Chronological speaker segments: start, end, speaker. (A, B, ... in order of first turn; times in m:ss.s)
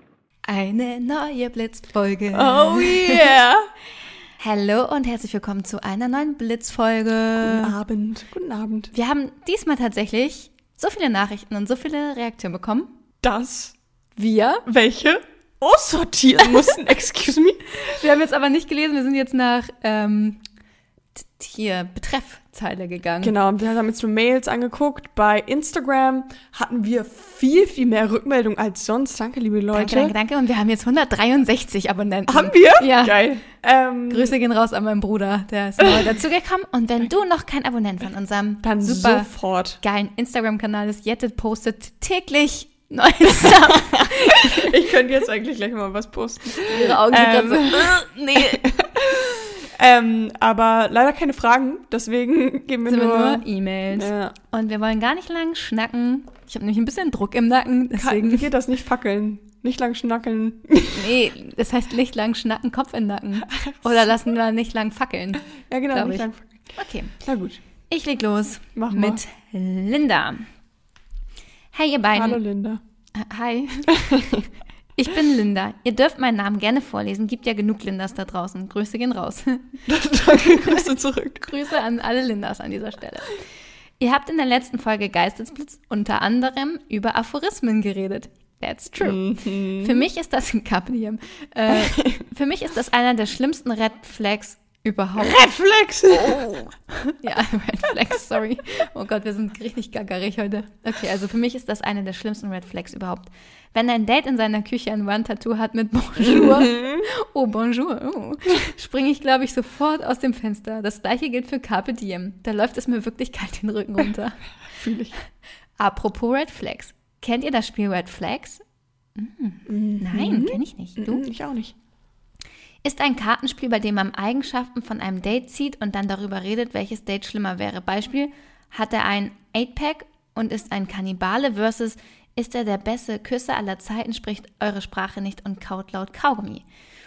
0:00.4-0:03.3 A
0:02.3-0:03.7 B
0:04.4-0:07.7 A
0:07.3-0:08.9 B
0:08.9-0:12.9 A
0:13.2-0:13.8 B
0:14.2-0:14.6 A
0:14.6-0:17.8 B
0:17.8-0:20.4 A
0:21.2-0:23.3 A
0:23.2-0:30.1 B
0:29.7-0:33.4 A
0:32.3-0:34.4 B
0:34.1-0:44.7 A
0:35.8-0:36.1 B
0:38.6-0:39.8 B
0:43.5-0:54.3 B
0:46.5-0:48.6 A
0:52.8-0:58.5 A
0:57.9-1:01.2 B
1:00.9-1:07.1 A
1:05.7-1:07.6 B
1:07.9-1:10.4 A
1:08.8-1:09.2 B
1:11.7-1:12.4 A
1:12.1-1:12.8 B
1:13.1-1:13.9 A
1:13.9-1:14.4 B
1:15.0-1:20.9 A
1:19.9-1:21.7 B
1:21.4-1:23.4 A
1:24.0-1:35.5 A
1:29.0-1:30.0 B
1:31.7-1:32.2 B
1:35.2-1:36.7 B
1:36.1-1:54.5 A
1:46.3-1:47.0 B
1:54.7-1:55.1 B
1:55.8-1:58.6 A
1:59.2-2:01.2 A
1:59.7-2:01.7 B
2:02.8-2:16.6 A